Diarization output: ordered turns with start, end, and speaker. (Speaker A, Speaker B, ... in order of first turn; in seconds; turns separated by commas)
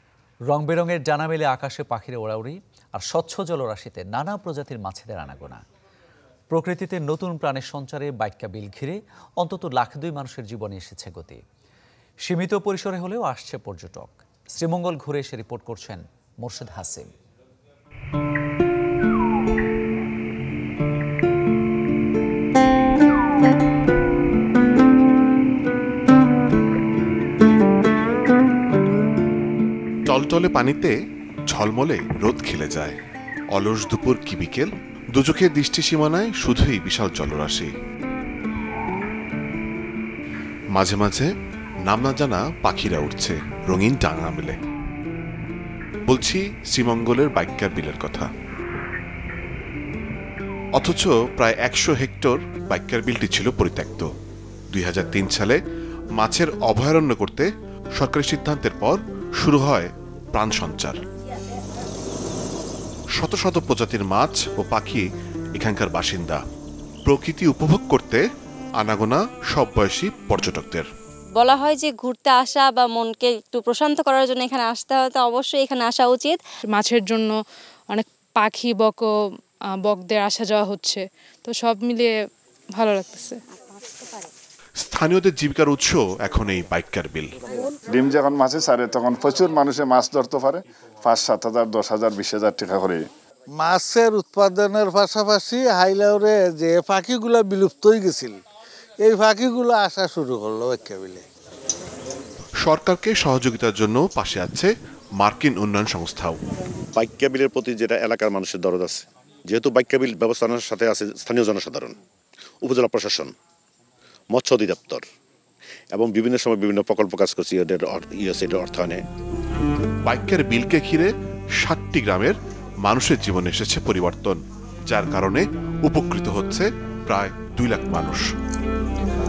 Speaker A: 0.5-5.6, Speaker A: 6.5-11.4, Speaker A: 12.3-17.1, Speaker B: 30.1-30.9, Speaker B: 31.5-33.0, Speaker B: 33.5-37.7, Speaker B: 40.7-41.3, Speaker B: 41.8-44.6, Speaker B: 46.1-48.3, Speaker B: 50.8-54.1, Speaker B: 54.7-55.6, Speaker B: 56.2-61.0, Speaker B: 63.1-65.0, Speaker B: 65.5-66.4, Speaker B: 67.0-68.2, Speaker B: 68.8-70.9, Speaker C: 71.4-76.4, Speaker D: 76.7-77.3, Speaker D: 77.9-79.1, Speaker D: 79.8-82.1, Speaker D: 82.8-83.4, Speaker B: 84.8-87.3, Speaker E: 87.9-93.0, Speaker F: 93.6-98.4, Speaker F: 99.0-101.2, Speaker B: 102.6-106.4, Speaker G: 106.9-112.0, Speaker G: 112.6-113.3, Speaker G: 114.3-115.0, Speaker G: 115.9-119.0, Speaker B: 120.0-128.3